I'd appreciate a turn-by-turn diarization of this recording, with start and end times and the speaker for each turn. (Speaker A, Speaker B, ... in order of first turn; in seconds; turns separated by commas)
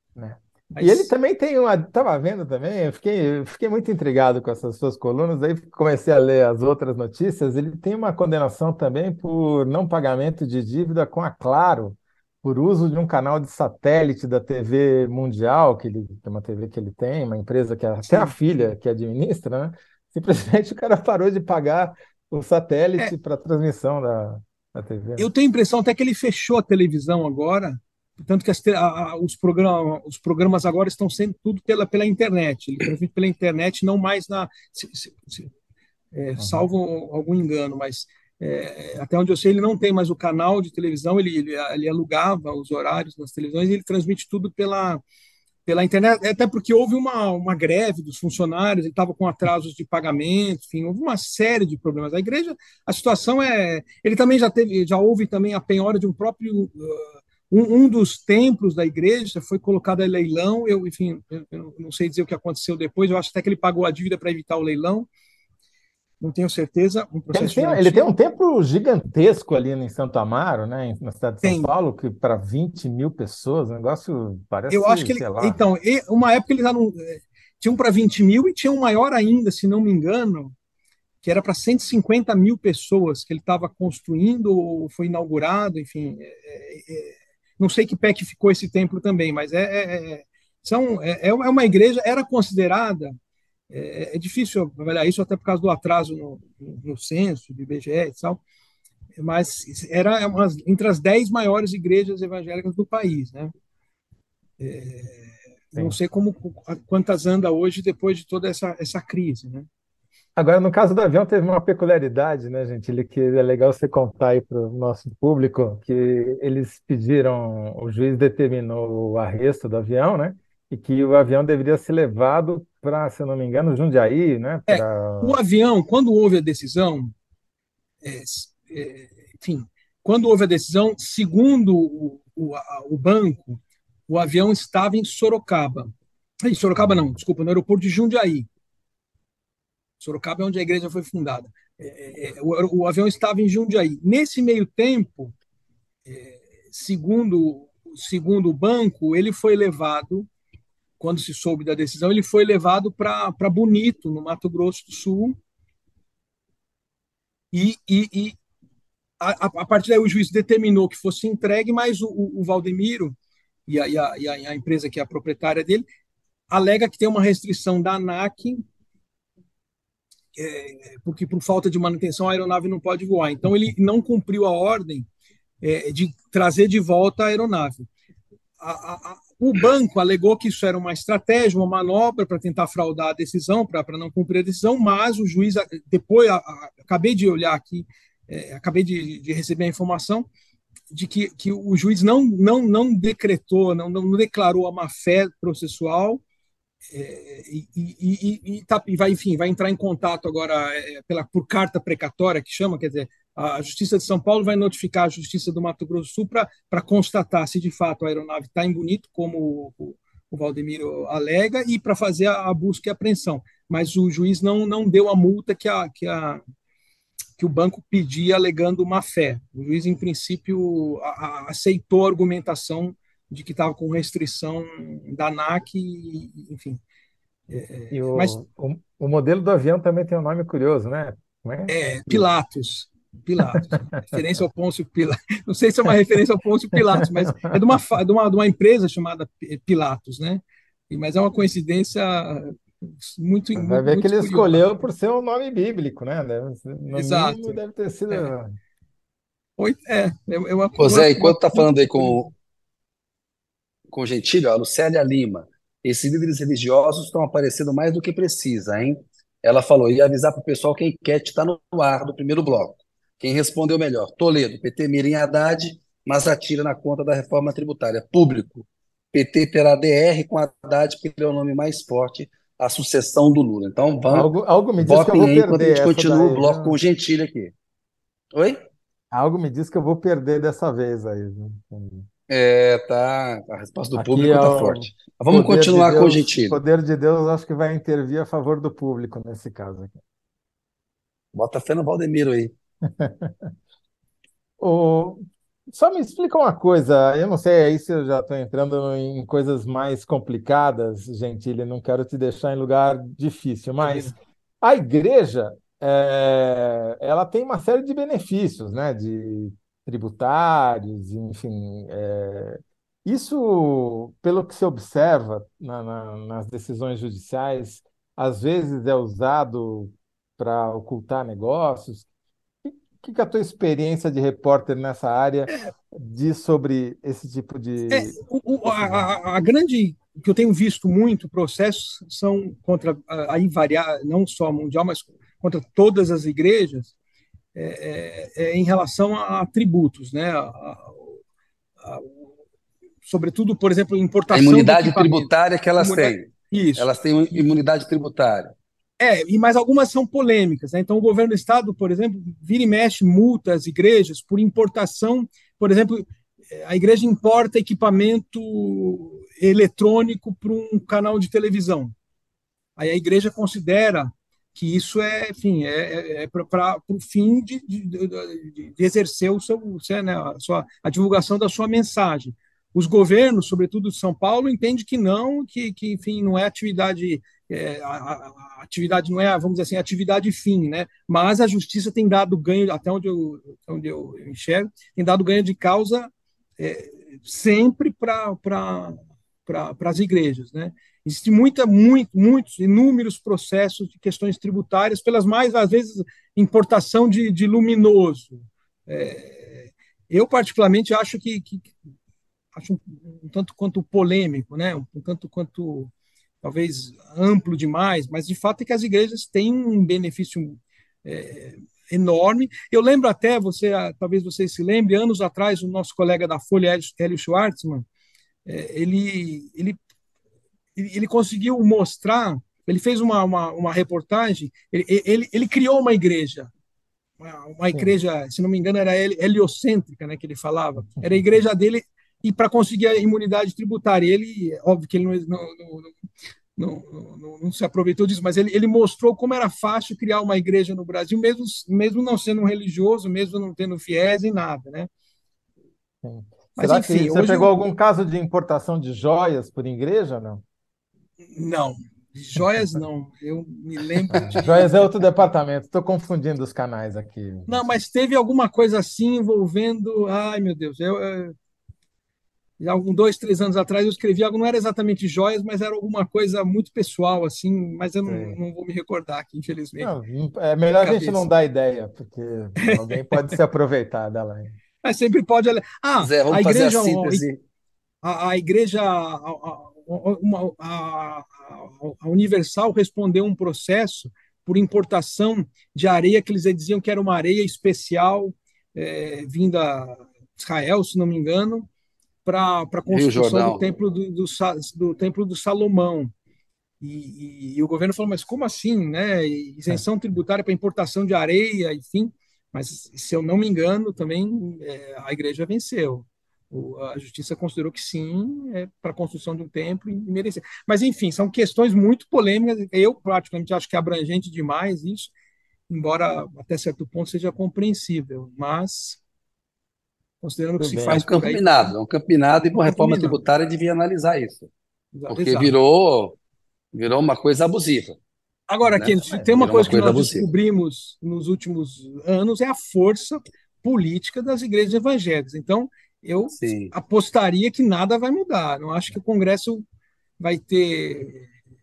Speaker A: 0.2-25.3, Speaker B: 0.8-1.1, Speaker B: 18.1-18.7, Speaker B: 25.2-35.5, Speaker B: 36.1-45.0, Speaker A: 36.4-36.7, Speaker B: 45.7-65.1, Speaker B: 66.2-68.1, Speaker A: 67.3-75.6, Speaker B: 71.4-71.7, Speaker B: 74.7-80.5, Speaker B: 81.2-93.2, Speaker B: 93.7-98.4, Speaker B: 99.2-103.5, Speaker B: 104.6-109.7, Speaker A: 110.4-125.4, Speaker B: 124.7-127.1, Speaker B: 128.0-138.5, Speaker A: 136.8-137.1, Speaker B: 140.0-145.3, Speaker B: 146.1-150.3, Speaker B: 151.0-155.4, Speaker B: 157.5-158.4, Speaker B: 159.2-165.9, Speaker B: 166.5-168.7, Speaker B: 170.4-175.1, Speaker B: 175.6-177.9, Speaker B: 178.6-190.3, Speaker B: 190.9-196.2, Speaker B: 196.9-216.4, Speaker B: 217.4-226.8, Speaker B: 227.5-228.4, Speaker A: 227.9-232.3, Speaker B: 231.7-244.7, Speaker A: 233.4-234.2, Speaker A: 236.7-237.6, Speaker A: 243.6-248.6, Speaker B: 246.9-247.6, Speaker B: 249.6-252.3, Speaker C: 250.8-252.3, Speaker C: 253.9-277.5, Speaker A: 274.1-276.8, Speaker C: 278.3-278.6, Speaker A: 279.1-282.1, Speaker C: 282.3-286.6, Speaker A: 284.0-290.0, Speaker C: 291.3-292.5, Speaker A: 292.9-293.5, Speaker A: 294.6-322.1, Speaker B: 303.8-304.1, Speaker A: 322.6-329.1, Speaker B: 327.9-336.9, Speaker B: 337.6-341.2, Speaker B: 341.8-342.3, Speaker B: 343.1-347.4, Speaker C: 344.3-348.5, Speaker B: 349.0-361.9, Speaker B: 362.8-401.8, Speaker B: 402.5-417.9, Speaker B: 418.5-419.8, Speaker B: 420.8-426.5, Speaker B: 427.2-435.9, Speaker B: 436.6-444.9, Speaker A: 446.0-450.4, Speaker B: 446.6-447.6, Speaker B: 451.4-454.9, Speaker A: 454.1-457.7, Speaker B: 457.5-461.4, Speaker B: 462.6-469.9, Speaker A: 468.1-468.4, Speaker A: 469.8-474.5, Speaker B: 470.8-471.3, Speaker B: 472.6-473.3, Speaker B: 474.8-477.2, Speaker C: 476.0-477.4, Speaker B: 478.0-491.7, Speaker B: 492.2-496.1, Speaker C: 492.9-493.6, Speaker B: 496.8-515.1, Speaker B: 515.7-519.0, Speaker B: 520.2-521.7, Speaker A: 520.6-521.0, Speaker C: 520.9-524.5, Speaker B: 522.6-523.2, Speaker B: 524.9-525.5, Speaker C: 525.1-526.2, Speaker C: 526.7-528.0, Speaker B: 528.5-539.6, Speaker A: 528.6-529.8, Speaker C: 529.3-530.3, Speaker C: 536.3-536.7, Speaker B: 540.2-541.3